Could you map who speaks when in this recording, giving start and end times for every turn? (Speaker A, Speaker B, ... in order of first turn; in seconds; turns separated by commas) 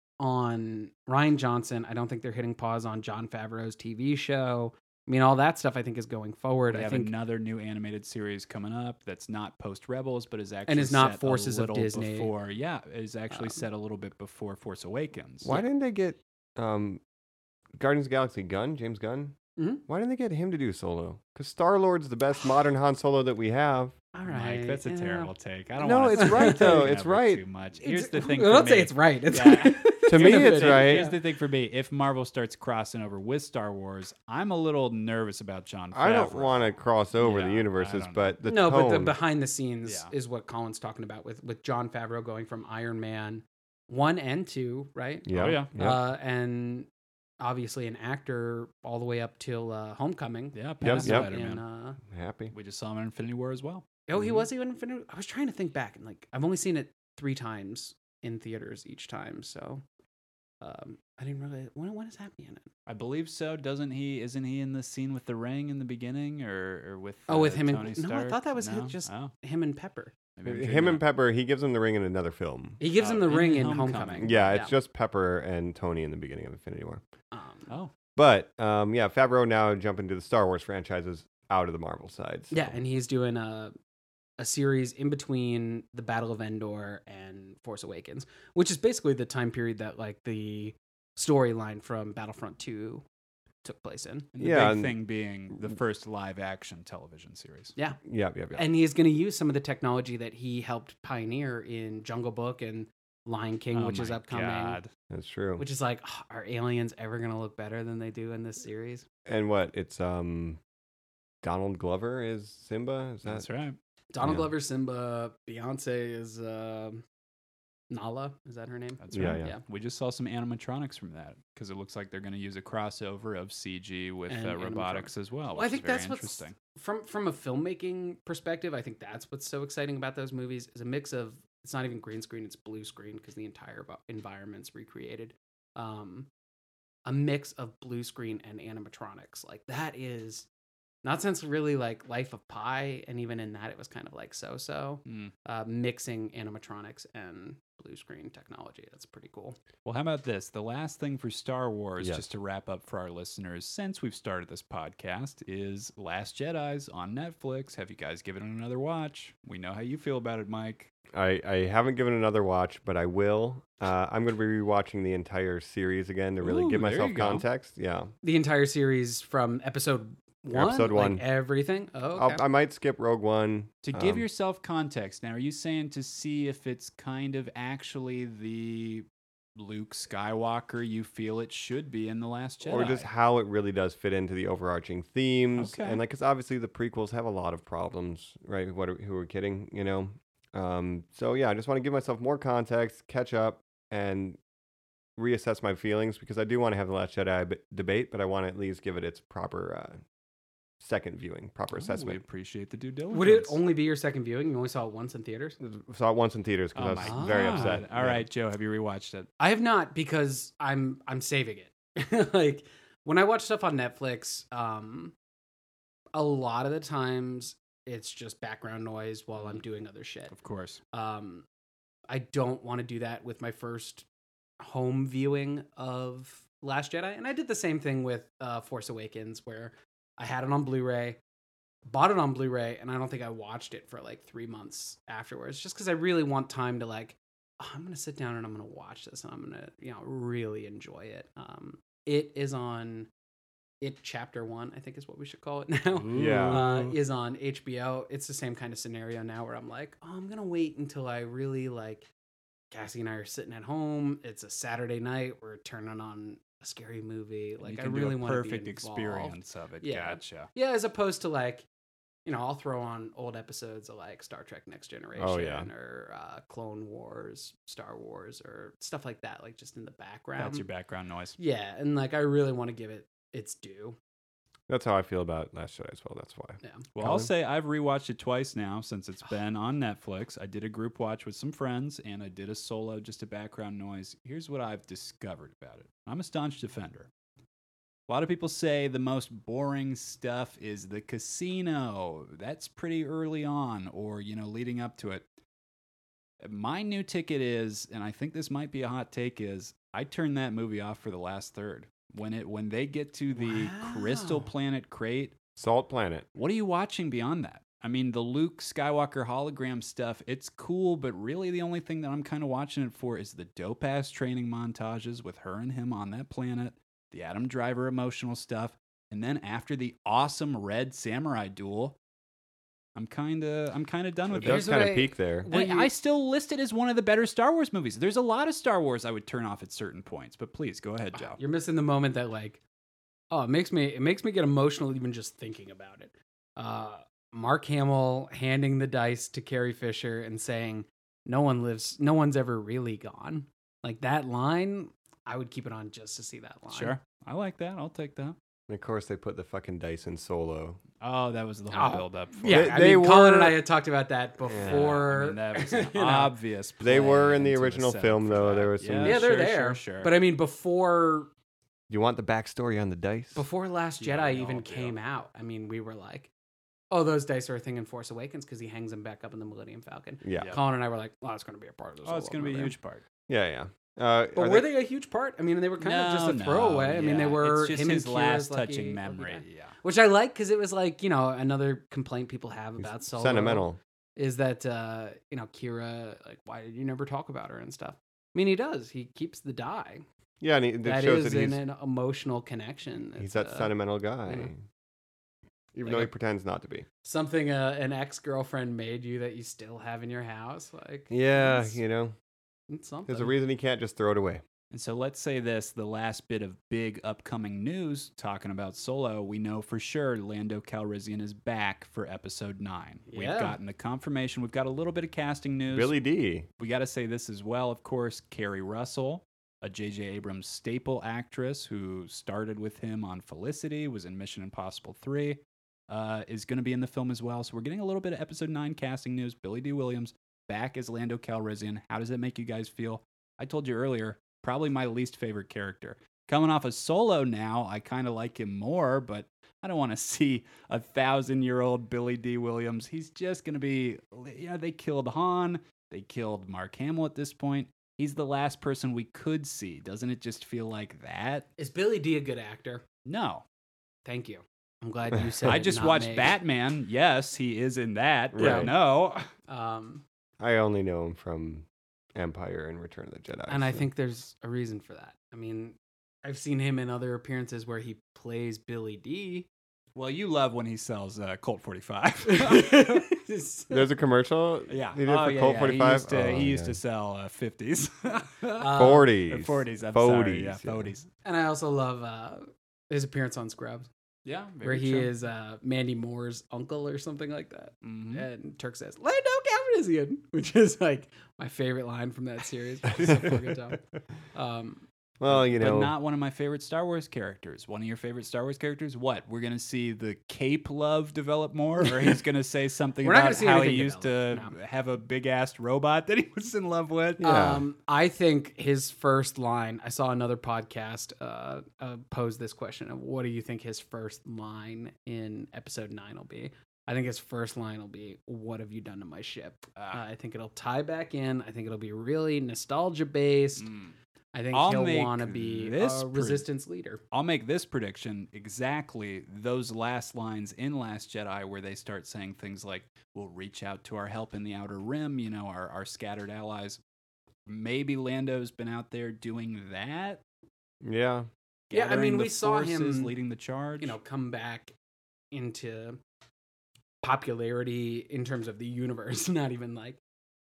Speaker A: 0.2-7.1, Speaker B: 6.7-15.6, Speaker A: 10.7-12.3, Speaker A: 13.3-13.6, Speaker C: 15.4-17.0, Speaker C: 17.8-23.9, Speaker A: 19.6-19.8, Speaker A: 24.1-25.3, Speaker B: 24.2-36.6, Speaker C: 25.8-27.4, Speaker A: 26.1-26.8, Speaker A: 27.8-31.1, Speaker C: 30.1-31.1, Speaker C: 35.9-39.1, Speaker B: 37.1-38.3, Speaker A: 38.4-46.9, Speaker B: 39.9-40.1, Speaker C: 45.2-46.0, Speaker B: 45.4-45.7, Speaker A: 47.4-52.0, Speaker B: 50.5-51.6, Speaker C: 50.8-51.3, Speaker C: 52.1-52.5, Speaker B: 52.5-54.4, Speaker A: 54.1-59.8, Speaker A: 60.6-62.7, Speaker B: 62.9-69.3, Speaker A: 67.3-70.1, Speaker B: 70.3-71.0, Speaker C: 70.4-72.8, Speaker A: 72.8-74.7, Speaker B: 73.0-74.6, Speaker C: 74.2-77.0, Speaker A: 77.3-77.7, Speaker C: 78.2-82.8, Speaker A: 82.5-83.7, Speaker A: 84.4-93.0, Speaker A: 93.6-94.3, Speaker B: 94.3-97.7, Speaker C: 94.4-95.0, Speaker C: 98.0-98.6, Speaker A: 98.5-104.8, Speaker B: 103.7-104.9, Speaker C: 105.1-105.6, Speaker A: 105.6-109.0, Speaker C: 109.2-110.6, Speaker C: 111.4-113.4, Speaker B: 113.2-113.8, Speaker A: 114.1-117.0, Speaker C: 114.2-114.5, Speaker A: 117.9-119.6, Speaker B: 119.0-126.5, Speaker C: 119.1-119.5, Speaker A: 124.3-136.3, Speaker A: 137.1-140.5, Speaker A: 141.0-149.6, Speaker B: 145.1-145.3, Speaker B: 149.8-160.9, Speaker C: 161.1-168.1, Speaker B: 166.4-167.4, Speaker A: 168.2-172.4, Speaker C: 170.5-171.2, Speaker C: 172.1-174.2, Speaker B: 173.8-183.1, Speaker C: 182.6-194.4, Speaker B: 185.6-186.0, Speaker C: 195.2-200.0, Speaker C: 200.8-202.2, Speaker B: 201.7-203.6, Speaker A: 203.1-205.6, Speaker C: 205.6-208.2, Speaker B: 206.7-209.3, Speaker A: 207.0-207.8, Speaker A: 209.4-215.1, Speaker A: 216.1-220.3, Speaker B: 220.3-220.8, Speaker A: 220.9-221.4, Speaker A: 222.1-224.1, Speaker A: 224.6-231.2, Speaker A: 231.9-243.1, Speaker A: 243.8-252.1, Speaker B: 245.9-246.9, Speaker C: 246.1-246.6, Speaker A: 252.7-261.6, Speaker B: 257.6-260.5, Speaker A: 262.2-270.6, Speaker C: 265.2-265.7, Speaker B: 270.4-271.4, Speaker A: 271.4-274.0, Speaker C: 274.7-277.3, Speaker B: 276.9-287.1, Speaker B: 288.1-295.2, Speaker B: 296.4-305.3, Speaker A: 303.4-304.5, Speaker C: 305.6-306.2, Speaker B: 306.3-322.0, Speaker B: 322.9-324.8, Speaker C: 324.3-325.5, Speaker A: 324.4-325.9, Speaker B: 325.5-331.4, Speaker A: 331.1-332.6, Speaker A: 333.3-346.9, Speaker B: 346.7-348.4, Speaker C: 348.7-350.8, Speaker B: 351.0-352.8, Speaker A: 351.7-356.3, Speaker C: 352.5-353.6, Speaker C: 354.4-354.9, Speaker B: 354.6-360.1, Speaker C: 356.8-359.2, Speaker A: 359.0-361.3, Speaker C: 361.9-363.4, Speaker A: 363.3-366.3, Speaker B: 364.0-364.9, Speaker A: 366.9-372.7, Speaker C: 370.2-370.5, Speaker B: 370.4-370.6, Speaker B: 372.0-373.0, Speaker C: 373.3-374.7, Speaker A: 374.3-390.0, Speaker B: 375.8-379.7, Speaker C: 382.8-383.8, Speaker C: 390.4-391.6, Speaker A: 390.8-393.7, Speaker C: 393.2-394.6, Speaker A: 394.2-394.5, Speaker C: 395.7-396.9, Speaker A: 397.0-401.8, Speaker C: 401.1-402.1, Speaker A: 402.7-403.3, Speaker C: 403.1-404.4, Speaker B: 404.7-415.9, Speaker A: 413.1-413.6, Speaker C: 415.7-416.5, Speaker B: 416.6-451.5, Speaker A: 451.6-452.8, Speaker B: 453.0-453.4, Speaker A: 454.0-456.3, Speaker C: 455.2-455.6, Speaker B: 455.4-459.3, Speaker C: 458.3-458.7, Speaker A: 458.4-458.7, Speaker A: 459.5-460.0, Speaker C: 460.4-463.9, Speaker A: 463.5-469.5, Speaker B: 469.9-473.0, Speaker A: 472.3-473.9, Speaker C: 473.7-476.8, Speaker B: 474.7-481.1, Speaker A: 478.6-479.1, Speaker C: 478.7-480.9, Speaker A: 481.2-483.9, Speaker B: 484.2-485.1, Speaker A: 484.6-493.8, Speaker B: 487.8-488.2, Speaker A: 494.3-494.8, Speaker C: 495.2-495.9, Speaker B: 495.2-507.2, Speaker A: 503.0-504.5, Speaker C: 507.2-507.6, Speaker A: 507.2-523.7, Speaker B: 519.8-520.0, Speaker B: 523.6-523.9, Speaker A: 524.3-527.0, Speaker B: 524.5-526.5, Speaker B: 527.1-536.8, Speaker B: 537.5-540.2, Speaker C: 540.8-541.3, Speaker B: 541.7-544.0, Speaker A: 541.7-543.1, Speaker A: 543.8-544.7, Speaker A: 545.3-546.0, Speaker A: 547.0-550.0